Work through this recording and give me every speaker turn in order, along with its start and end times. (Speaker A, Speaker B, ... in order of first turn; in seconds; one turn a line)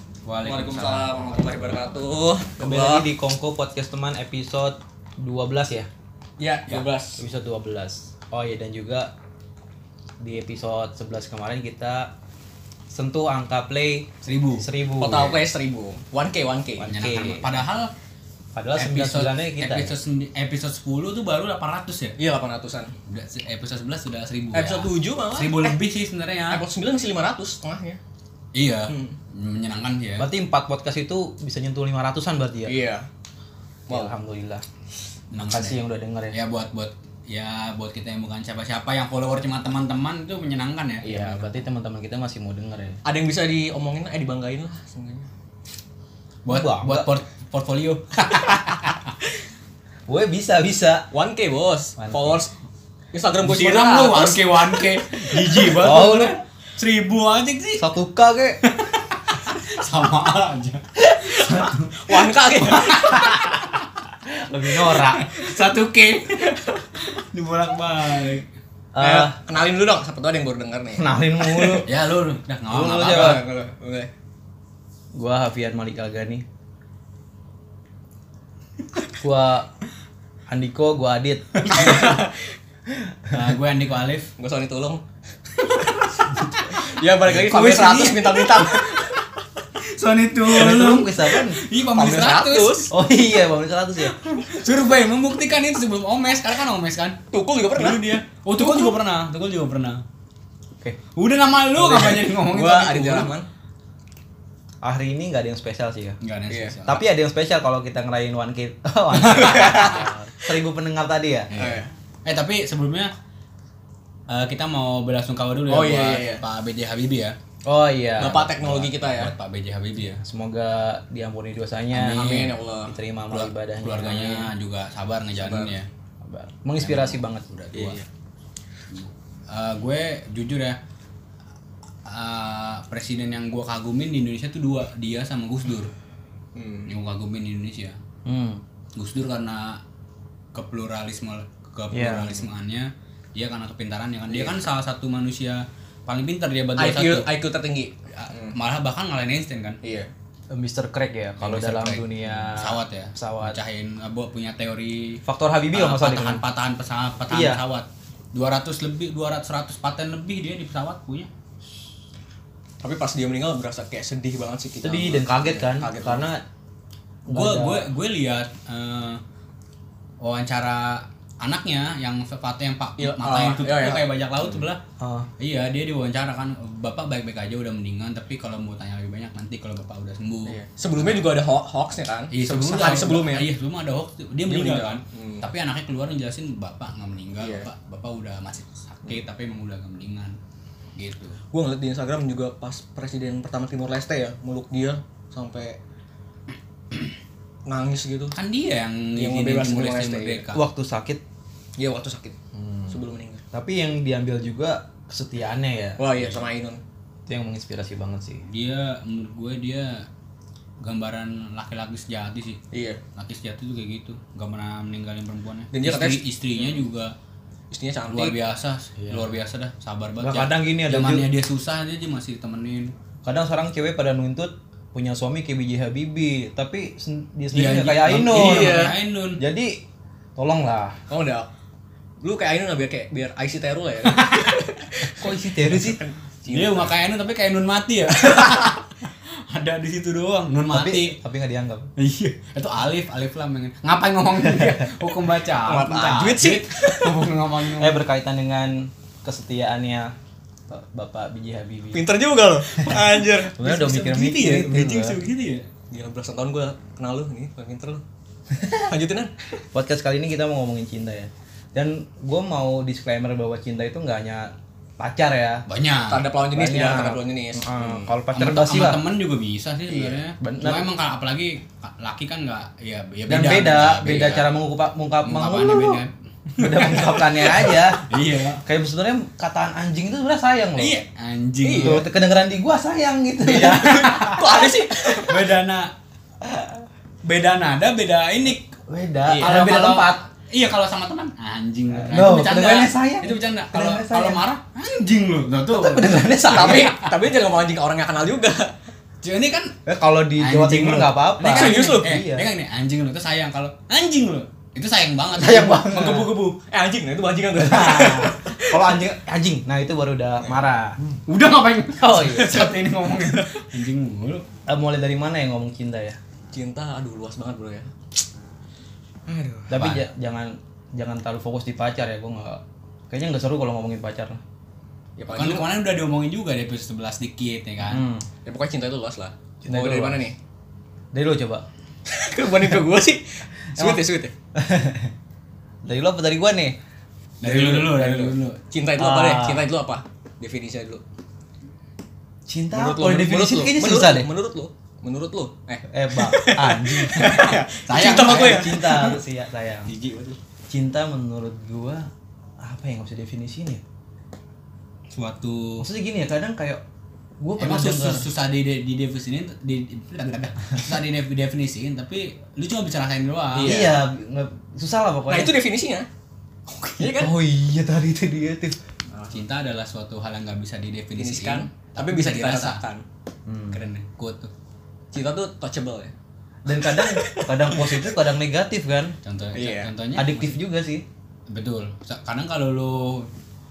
Speaker A: 0.2-1.1
Speaker B: 0.4-3.1
Speaker C: 2.6-5.9
Speaker B: 6.4-7.2
Speaker C: 7.2-9.1
Speaker C: 10.2-12.1
Speaker C: 12.9-15.4
Speaker A: 14.2-14.7
Speaker B: 15.0-16.9
Speaker C: 16.8-17.5
Speaker A: 16.9-17.9
Speaker C: 18.5-19.9
Speaker A: 18.7-22.1
Speaker B: 22.2-22.9
Speaker A: 23.1-26.6
Speaker B: 24.5-25.8
Speaker B: 26.5-28.0
Speaker A: 28.5-30.3
Speaker B: 28.9-29.1
Speaker C: 30.2-32.7
Speaker B: 32.6-33.0
Speaker C: 33.9-34.6
Speaker A: 35.3-35.8
Speaker C: 35.4-36.4
Speaker A: 36.3-41.0
Speaker B: 41.0-41.6
Speaker C: 41.0-43.0
Speaker B: 43.0-45.3
Speaker A: 46.4-49.1
Speaker C: 46.5-47.1
Speaker C: 50.1-51.1
Speaker B: 51.1-52.5
Speaker C: 52.0-52.4
Speaker B: 53.1-54.8
Speaker A: 53.4-57.9
Speaker C: 55.6-56.4
Speaker C: 57.8-58.6
Speaker A: 58.6-63.5
Speaker B: 61.1-63.5
Speaker C: 64.2-65.3
Speaker A: 64.8-66.4
Speaker B: 66.3-66.9
Speaker A: 67.1-68.4
Speaker B: 68.0-68.4
Speaker C: 68.9-69.4
Speaker B: 69.0-71.8
Speaker C: 71.0-71.9
Speaker A: 71.8-73.4
Speaker C: 72.7-73.4
Speaker B: 73.0-74.1
Speaker C: 75.1-76.4
Speaker C: 79.2-79.7
Speaker C: 80.5-81.9
Speaker A: 81.5-82.2
Speaker B: 81.7-82.5
Speaker A: 83.3-84.3
Speaker B: 84.4-85.0
Speaker B: 85.6-85.9
Speaker B: 86.7-89.2
Speaker A: 87.3-89.2
Speaker A: 89.9-92.8
Speaker C: 90.5-91.6
Speaker B: 91.9-92.9
Speaker C: 92.9-94.2
Speaker A: 94.1-97.2
Speaker B: 97.3-99.0
Speaker A: 97.7-100.0
Speaker A: 101.1-103.3
Speaker B: 101.8-103.5
Speaker C: 104.8-106.2
Speaker A: 106.2-107.0
Speaker B: 106.5-106.8
Speaker C: 106.8-111.5
Speaker A: 109.1-110.1
Speaker B: 109.4-110.0
Speaker A: 111.5-113.1
Speaker B: 111.5-111.9
Speaker A: 114.3-117.4
Speaker B: 115.7-116.4
Speaker C: 117.7-118.7
Speaker B: 118.2-119.3
Speaker A: 118.6-120.2
Speaker C: 120.0-124.5
Speaker A: 121.9-122.6
Speaker B: 122.1-123.0
Speaker A: 123.3-125.9
Speaker B: 125.4-125.7
Speaker C: 126.2-127.4
Speaker A: 126.8-128.0
Speaker B: 127.7-128.1
Speaker A: 128.9-130.8
Speaker A: 132.1-135.9
Speaker B: 136.5-136.9
Speaker A: 136.9-138.0
Speaker C: 138.2-138.6
Speaker A: 138.9-139.8
Speaker A: 140.5-147.3
Speaker C: 141.9-142.4
Speaker B: 144.3-144.6
Speaker B: 146.8-148.5
Speaker A: 148.1-149.8
Speaker B: 149.8-150.1
Speaker C: 150.5-153.6
Speaker A: 151.4-155.2
Speaker C: 155.2-156.4
Speaker A: 155.7-161.3
Speaker C: 157.3-157.6
Speaker B: 162.8-166.3
Speaker C: 164.8-166.4
Speaker C: 167.3-167.9
Speaker A: 167.3-169.2
Speaker A: 170.2-174.8
Speaker B: 173.0-174.6
Speaker C: 175.0-175.3
Speaker A: 175.4-181.3
Speaker B: 180.4-183.5
Speaker A: 182.3-190.3
Speaker C: 182.5-182.9
Speaker B: 184.5-185.5
Speaker B: 187.4-187.7
Speaker A: 190.9-191.4
Speaker B: 191.5-195.8
Speaker B: 197.7-198.4
Speaker A: 198.3-200.6
Speaker B: 199.2-200.4
Speaker C: 200.5-201.2
Speaker B: 201.8-203.4
Speaker C: 202.5-203.0
Speaker C: 203.5-206.0
Speaker B: 206.0-206.8
Speaker C: 207.3-208.4
Speaker A: 208.5-210.1
Speaker A: 210.8-212.6
Speaker B: 212.7-213.0
Speaker A: 213.2-217.1
Speaker B: 215.7-216.7
Speaker B: 217.7-218.3
Speaker A: 218.1-222.9
Speaker C: 220.2-221.3
Speaker C: 223.2-229.8
Speaker A: 227.5-229.4
Speaker B: 228.2-228.9
Speaker C: 230.3-231.0
Speaker B: 231.1-231.5
Speaker B: 232.2-236.9
Speaker A: 234.2-234.6
Speaker C: 235.1-236.0
Speaker A: 236.5-238.8
Speaker B: 238.2-238.7
Speaker A: 239.5-241.2
Speaker C: 240.7-241.9
Speaker A: 242.0-248.1
Speaker C: 244.4-244.9
Speaker B: 245.7-247.3
Speaker C: 247.8-250.1
Speaker C: 250.7-252.2
Speaker B: 251.9-253.6
Speaker C: 252.7-255.2
Speaker A: 253.6-255.7
Speaker B: 255.9-258.0
Speaker B: 258.6-259.3
Speaker C: 259.7-265.6
Speaker A: 265.7-266.2
Speaker B: 266.1-268.1
Speaker C: 266.5-269.0
Speaker A: 268.3-274.5
Speaker B: 269.9-270.2
Speaker C: 270.4-270.9
Speaker C: 273.3-276.0
Speaker A: 275.2-278.6
Speaker C: 276.6-281.0
Speaker A: 280.8-282.0
Speaker B: 281.6-282.0
Speaker C: 281.8-284.1
Speaker B: 283.4-285.5
Speaker A: 283.5-284.5
Speaker A: 285.2-285.9
Speaker C: 286.4-286.8
Speaker A: 287.2-288.7
Speaker C: 288.8-290.2
Speaker A: 289.4-297.1
Speaker C: 291.9-294.4
Speaker C: 295.7-296.9
Speaker B: 296.5-298.7
Speaker A: 299.2-299.8
Speaker C: 299.9-302.5
Speaker A: 300.4-306.5
Speaker B: 301.4-302.2
Speaker C: 305.3-306.3
Speaker B: 306.5-308.8
Speaker C: 307.5-311.0
Speaker A: 311.2-314.4
Speaker C: 312.0-312.8
Speaker B: 313.2-313.6
Speaker C: 314.7-316.2
Speaker B: 316.5-317.9
Speaker B: 319.3-319.9
Speaker C: 319.7-324.4
Speaker A: 319.7-320.0
Speaker B: 325.2-325.7
Speaker A: 325.3-328.1
Speaker C: 327.8-328.3
Speaker B: 328.4-330.4
Speaker C: 329.6-330.3
Speaker C: 331.1-331.6
Speaker B: 332.1-334.3
Speaker C: 333.8-334.0
Speaker C: 334.5-335.1
Speaker C: 335.8-336.8
Speaker A: 337.4-338.6
Speaker C: 337.4-338.3
Speaker B: 337.9-341.0
Speaker C: 339.0-339.7
Speaker C: 342.5-344.3
Speaker B: 342.7-349.1
Speaker C: 345.9-347.4
Speaker A: 347.2-349.2
Speaker C: 348.1-349.9
Speaker A: 349.9-350.4
Speaker C: 350.7-352.1
Speaker C: 352.6-353.8
Speaker A: 355.1-355.9
Speaker C: 355.8-356.8
Speaker C: 357.4-358.2
Speaker A: 357.6-363.8
Speaker B: 363.5-364.0
Speaker C: 363.6-365.6
Speaker B: 365.3-366.1
Speaker A: 366.7-367.1
Speaker B: 367.0-367.3
Speaker C: 367.1-368.8
Speaker B: 369.1-369.4
Speaker A: 369.3-372.8
Speaker B: 371.1-373.0
Speaker C: 373.5-373.8
Speaker A: 373.7-374.5
Speaker B: 375.1-376.1
Speaker C: 376.6-379.1
Speaker B: 376.7-378.2
Speaker A: 379.2-380.6
Speaker B: 379.5-379.9
Speaker C: 380.1-381.0
Speaker A: 381.5-383.3